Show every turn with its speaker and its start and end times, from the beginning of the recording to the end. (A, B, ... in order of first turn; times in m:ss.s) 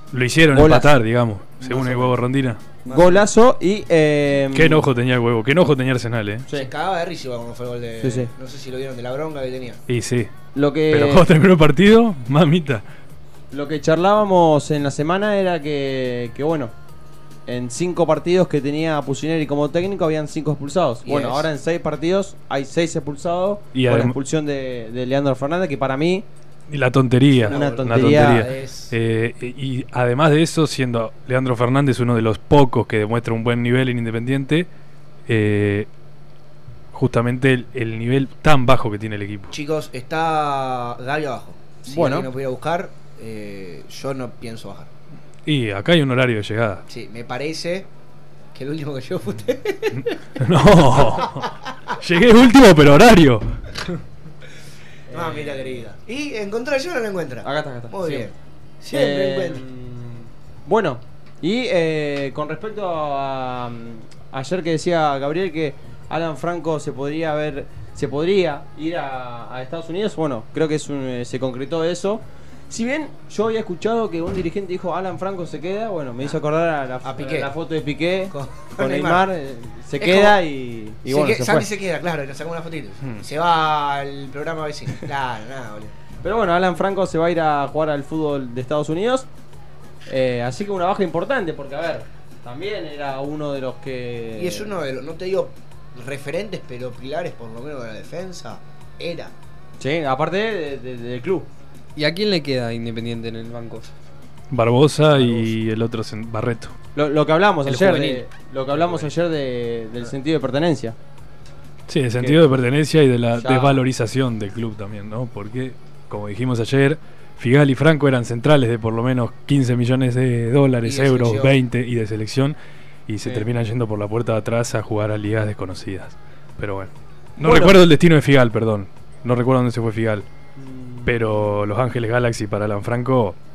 0:00.1-0:02.6 A
0:00.5-0:00.9 B
0:01.6-0:02.2 C
0:02.8-0:03.3 C
0:02.9-0:04.9 B
0:04.5-0:06.5 A
0:06.5-0:09.8 C
0:08.0-0:08.3 B
0:09.9-0:10.3 A
0:10.5-0:11.2 B
0:10.9-0:12.8 A
0:13.5-0:16.7 B
0:17.4-0:26.2 B
0:21.0-0:21.5 C
0:23.7-0:24.2 A
0:26.7-0:34.7 A
0:27.3-0:28.9 C
0:27.4-0:28.5 B
0:35.3-0:35.9 A
0:36.9-0:39.5 A
0:39.5-0:44.9 C
0:41.8-0:42.3 B
0:45.4-0:46.8 A
0:46.9-0:47.9 C
0:48.5-0:50.2 C
0:50.0-0:53.4 A
0:51.0-0:51.9 C
0:55.1-0:55.7 B
0:55.1-0:59.6 C
0:57.4-0:58.3 B
0:58.9-1:21.7 B
1:17.0-1:17.5 C
1:18.3-1:19.3 C
1:20.0-1:20.4 C
1:21.0-1:25.9 C
1:26.2-1:29.3 B
1:30.0-1:34.7 B
1:34.3-1:39.3 C
1:39.8-1:41.5 B
1:42.0-1:43.8 D
1:44.5-1:46.7 A
1:46.9-1:51.0 B
1:47.6-1:48.2 D
1:51.9-2:02.6 A
1:53.3-1:53.8 B
2:00.8-2:01.6 C
2:03.1-2:10.2 A
2:07.4-2:07.7 B
2:10.6-2:11.6 B
2:11.0-2:13.4 A